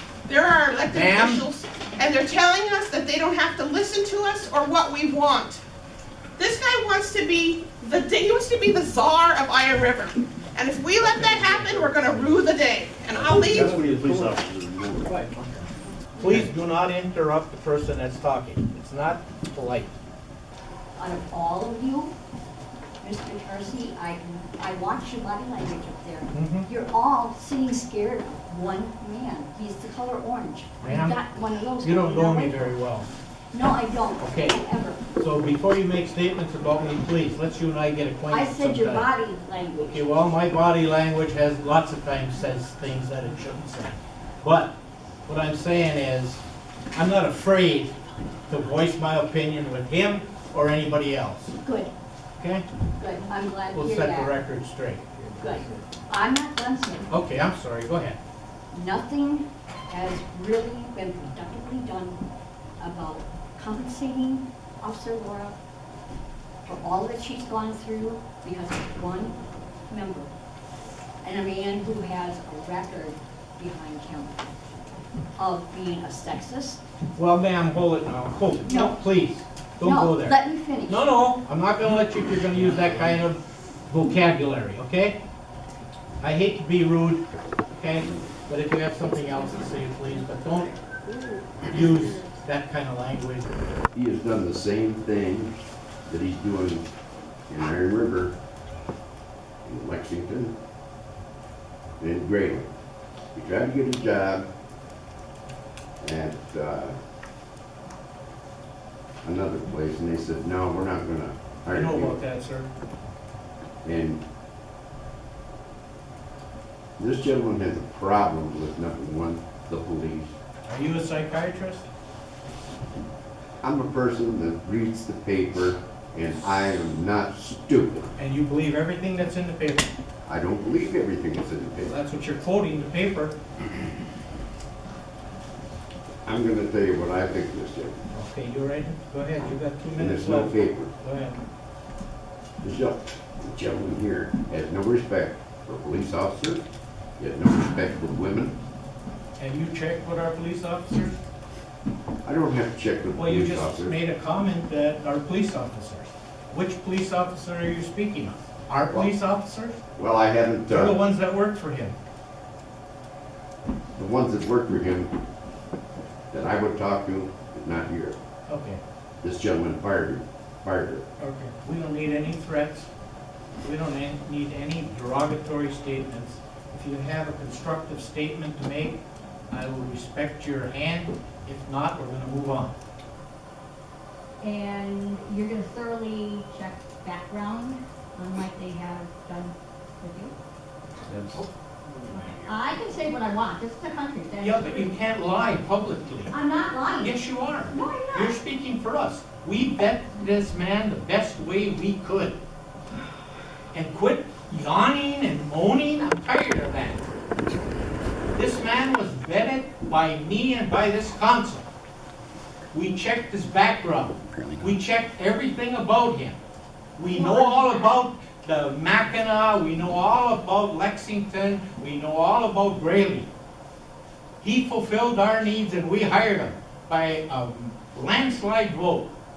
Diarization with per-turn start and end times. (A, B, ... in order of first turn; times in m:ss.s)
0:00.3-0:05.6 A
0:00.9-0:01.4 B
0:06.4-0:13.7 A
0:11.0-0:12.3 B
0:13.2-0:15.5 C
0:13.5-0:14.4 B
0:16.2-0:19.9 B
0:21.0-0:22.1 D
0:23.0-0:32.7 D
0:26.3-0:26.7 B
0:30.8-0:31.2 B
0:31.8-0:33.1 B
0:33.5-0:35.0 D
0:34.2-0:34.6 B
0:35.2-0:39.1 B
0:38.3-0:40.0 D
0:39.9-0:46.4 B
0:46.9-0:48.0 B
0:48.5-0:51.6 B
0:51.6-0:51.9 D
0:52.4-0:52.6 B
0:53.0-0:54.4 D
0:53.7-0:55.6 B
0:55.4-0:57.1 D
0:57.1-0:58.2 B
0:58.7-1:02.2 D
1:02.8-1:05.6 D
1:06.6-1:09.4 D
1:09.9-1:10.3 D
1:11.2-1:14.5 D
1:15.4-1:16.8 D
1:17.2-1:25.2 B
1:18.7-1:19.0 D
1:19.8-1:21.3 D
1:26.2-1:30.7 B
1:31.7-1:33.5 B
1:33.9-1:35.6 E
1:36.1-1:36.9 E
1:37.5-1:38.4 E
1:39.6-1:40.6 E
1:42.0-1:42.7 E
1:43.3-1:44.5 E
1:46.0-1:47.0 E
1:49.2-1:52.2 E
1:51.7-1:52.7 B
1:53.8-1:54.2 E
1:57.0-2:00.3 E
2:00.7-2:01.8 B
2:03.6-2:08.1 E
2:08.2-2:10.0 B
2:10.3-2:12.0 E
2:11.8-2:13.4 B
2:16.2-2:18.0 E
2:18.1-2:21.4 B
2:20.0-2:20.9 E
2:22.6-2:26.6 E
2:27.2-2:28.6 E
2:29.4-2:31.2 B
2:32.2-2:34.0 E
2:33.2-2:39.8 B
2:40.0-2:41.0 E
2:40.7-2:42.0 B
2:44.0-2:45.2 E
2:46.3-2:48.2 E
2:48.5-2:48.8 B
2:49.2-2:51.1 E
2:51.2-2:52.9 B
2:53.6-3:02.8 B
3:04.4-3:10.3 F
3:12.1-3:14.9 F
3:14.4-3:16.4 B
3:16.3-3:17.2 F
3:16.5-3:17.0 D
3:17.0-3:22.4 B
3:17.7-3:18.3 F
3:23.7-3:27.0 B
3:28.4-3:31.7 B
3:32.7-3:36.4 B
3:37.0-3:43.3 B
3:37.2-3:37.5 A
3:44.4-3:49.1 B